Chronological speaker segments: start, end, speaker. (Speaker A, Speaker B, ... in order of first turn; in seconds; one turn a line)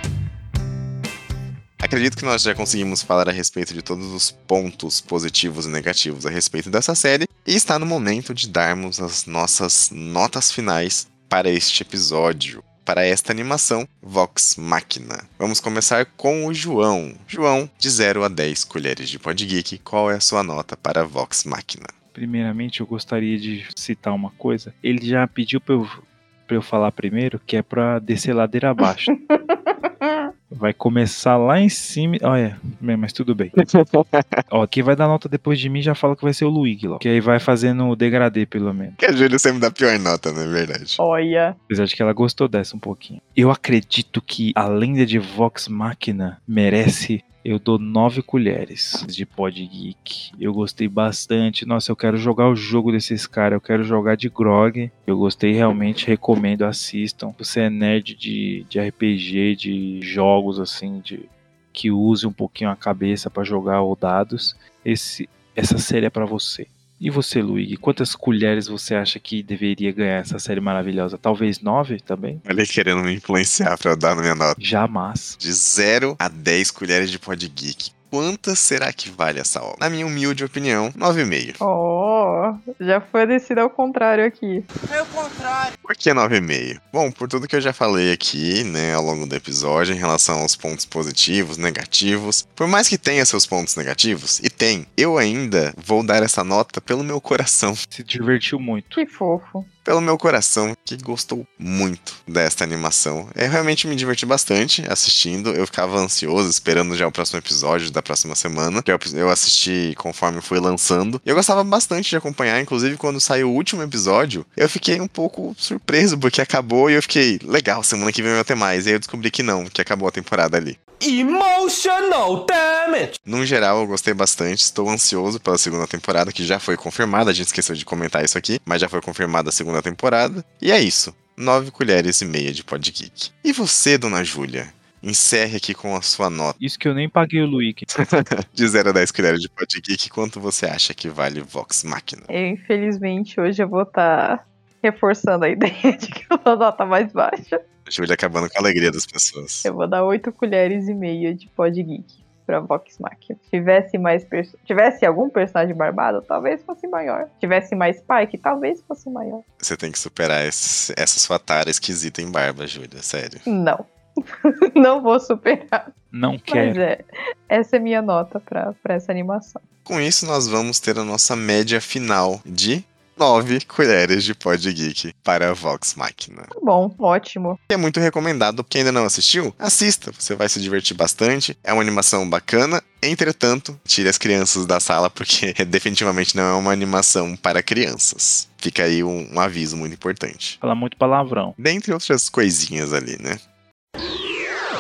Speaker A: 1.8-21.9
Speaker B: 22.1-29.1
Speaker C: 29.3-30.2
Speaker B: 30.5-33.5
Speaker A: 33.6-34.4
Speaker B: 34.5-39.0
Speaker A: 39.0-41.0
Speaker C: 41.0-41.6
Speaker B: 41.7-72.4
Speaker A: 72.4-74.6
Speaker B: 74.6-75.4
Speaker A: 75.4-81.6
Speaker C: 81.6-84.7
Speaker A: 85.8-97.8
Speaker B: 97.9-99.0
Speaker C: 99.0-99.7
Speaker A: 99.8-120.8
Speaker A: 123.2-136.6
Speaker B: 136.6-137.9
Speaker A: 137.9-142.3
Speaker C: 142.3-147.6
Speaker A: 147.8-149.7
Speaker C: 149.6-159.4
Speaker A: 159.6-163.4
Speaker C: 163.5-163.9
Speaker C: 164.5-165.9
Speaker B: 166.1-166.8
Speaker C: 166.5-169.6
Speaker A: 169.8-176.5
Speaker C: 176.5-177.6
Speaker A: 177.7-190.6
Speaker B: 190.6-191.5
Speaker A: 191.6-193.4